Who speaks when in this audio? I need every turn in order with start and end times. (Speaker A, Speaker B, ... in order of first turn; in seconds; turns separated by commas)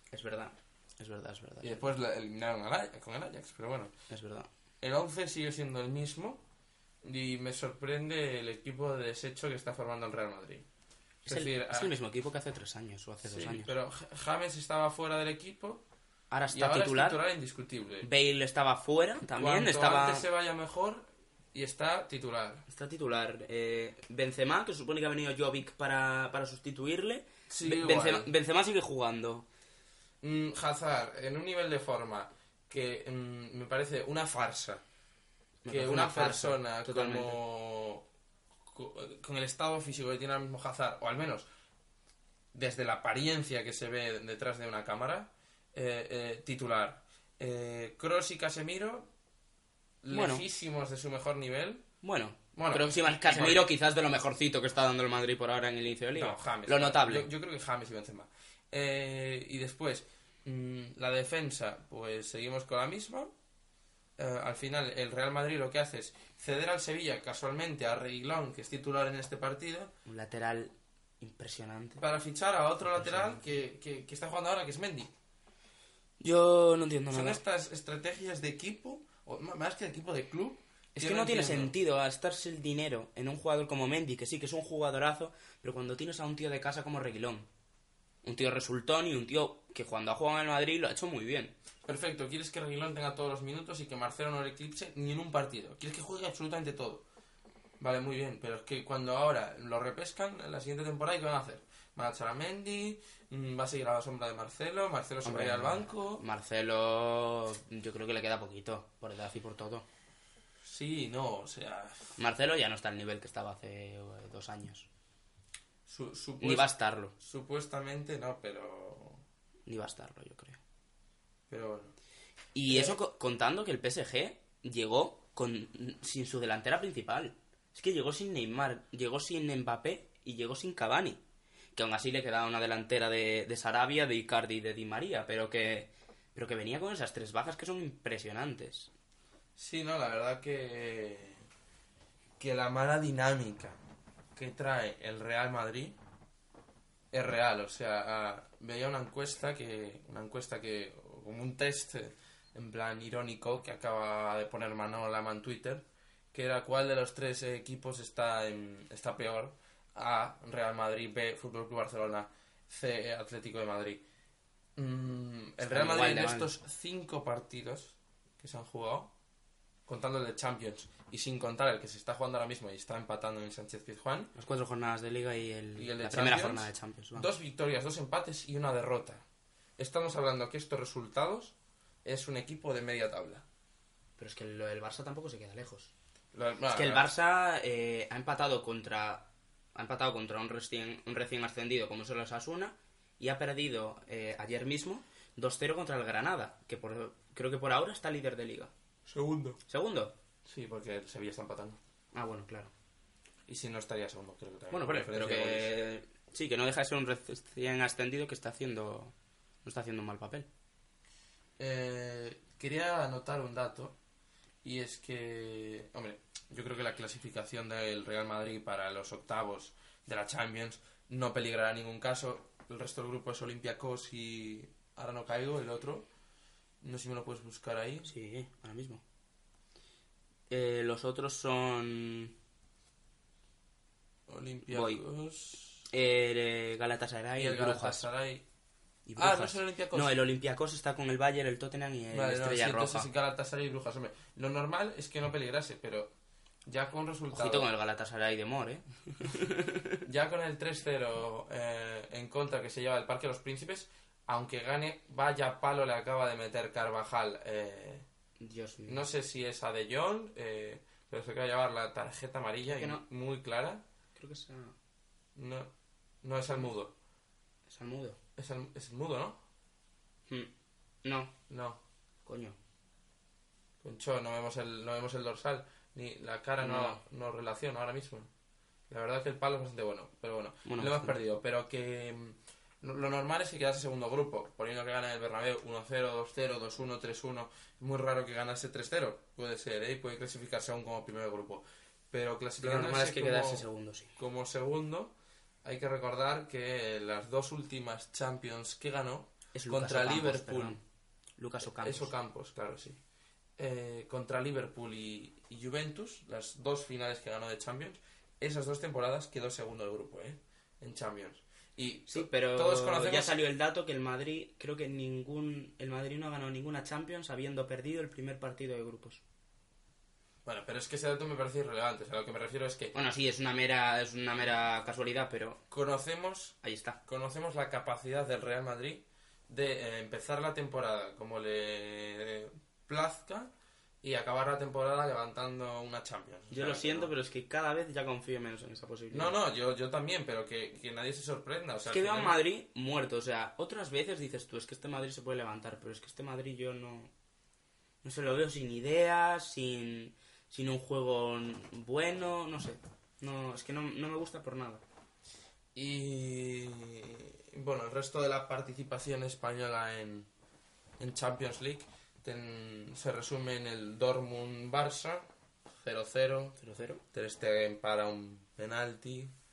Speaker A: 0.1-1.9, Speaker B: 1.6-3.9, Speaker A: 4.1-4.5, Speaker B: 4.8-6.4, Speaker B: 7.0-10.7, Speaker B: 11.2-11.9, Speaker A: 11.2-13.7, Speaker B: 13.2-15.8, Speaker A: 16.3-17.2, Speaker B: 16.5-18.1, Speaker A: 18.0-20.3, Speaker B: 19.3-22.6, Speaker A: 22.7-29.4, Speaker B: 27.5-28.3, Speaker B: 30.2-34.8, Speaker A: 35.6-37.4, Speaker B: 35.7-38.0, Speaker B: 38.7-41.5, Speaker B: 42.5-49.1, Speaker B: 50.0-51.8, Speaker A: 50.1-50.4, Speaker A: 52.0-57.3, Speaker B: 52.5-53.7, Speaker B: 56.1-63.3, Speaker B: 64.2-69.9, Speaker A: 70.0-72.0, Speaker B: 72.0-75.1, Speaker A: 72.9-73.4, Speaker A: 76.2-77.4, Speaker B: 77.1-81.7, Speaker A: 81.0-87.5, Speaker A: 88.2-91.5, Speaker B: 91.8-97.0, Speaker B: 97.8-106.2, Speaker A: 105.2-109.8, Speaker B: 110.6-112.1, Speaker A: 112.2-114.9, Speaker B: 115.9-119.2, Speaker A: 116.4-117.1, Speaker A: 119.7-120.6, Speaker B: 121.5-121.9, Speaker A: 122.5-131.2, Speaker B: 122.7-123.0, Speaker A: 131.7-138.9, Speaker B: 139.6-141.4, Speaker B: 142.4-143.8, Speaker B: 144.3-146.0, Speaker B: 147.1-164.0, Speaker B: 164.8-169.1, Speaker A: 165.6-166.5, Speaker B: 169.9-174.3, Speaker A: 174.3-177.3, Speaker B: 175.8-179.2, Speaker B: 179.8-183.4, Speaker A: 184.2-185.9, Speaker B: 186.3-187.1, Speaker A: 186.7-198.7, Speaker B: 199.1-199.6, Speaker A: 199.7-200.1, Speaker B: 200.4-201.8, Speaker A: 202.1-202.7, Speaker B: 203.5-205.7, Speaker A: 204.7-209.1, Speaker A: 209.6-210.5, Speaker B: 211.6-214.0, Speaker B: 214.6-226.1, Speaker B: 226.8-228.1, Speaker A: 228.0-229.0, Speaker A: 230.5-232.3, Speaker B: 234.3-235.8, Speaker A: 234.7-235.0, Speaker A: 235.9-238.1, Speaker B: 237.3-238.4, Speaker A: 239.1-243.1, Speaker B: 239.2-240.2, Speaker B: 242.1-246.1, Speaker B: 246.7-247.7, Speaker A: 247.3-250.0, Speaker B: 250.0-258.0, Speaker A: 258.4-259.0, Speaker B: 258.9-263.8, Speaker A: 262.7-263.0, Speaker A: 264.1-264.7, Speaker B: 265.4-265.7, Speaker B: 266.2-266.9, Speaker A: 267.7-268.2, Speaker B: 268.4-269.4, Speaker A: 271.0-271.3, Speaker B: 271.5-271.8, Speaker A: 272.2-272.6, Speaker B: 273.8-278.3, Speaker A: 276.6-277.0, Speaker B: 278.9-300.8, Speaker A: 280.6-281.2, Speaker A: 292.6-294.1, Speaker A: 299.5-300.8, Speaker A: 301.4-302.1, Speaker B: 301.6-303.0, Speaker B: 303.6-313.4, Speaker A: 312.1-319.2, Speaker B: 320.4-322.9, Speaker A: 322.9-325.6, Speaker B: 325.7-337.1, Speaker A: 326.6-327.0, Speaker A: 336.5-339.4, Speaker B: 339.1-342.4, Speaker A: 341.9-347.1, Speaker A: 348.0-354.8, Speaker B: 355.7-360.3, Speaker B: 361.0-365.2, Speaker B: 365.8-366.6, Speaker A: 366.6-367.0, Speaker B: 367.1-369.3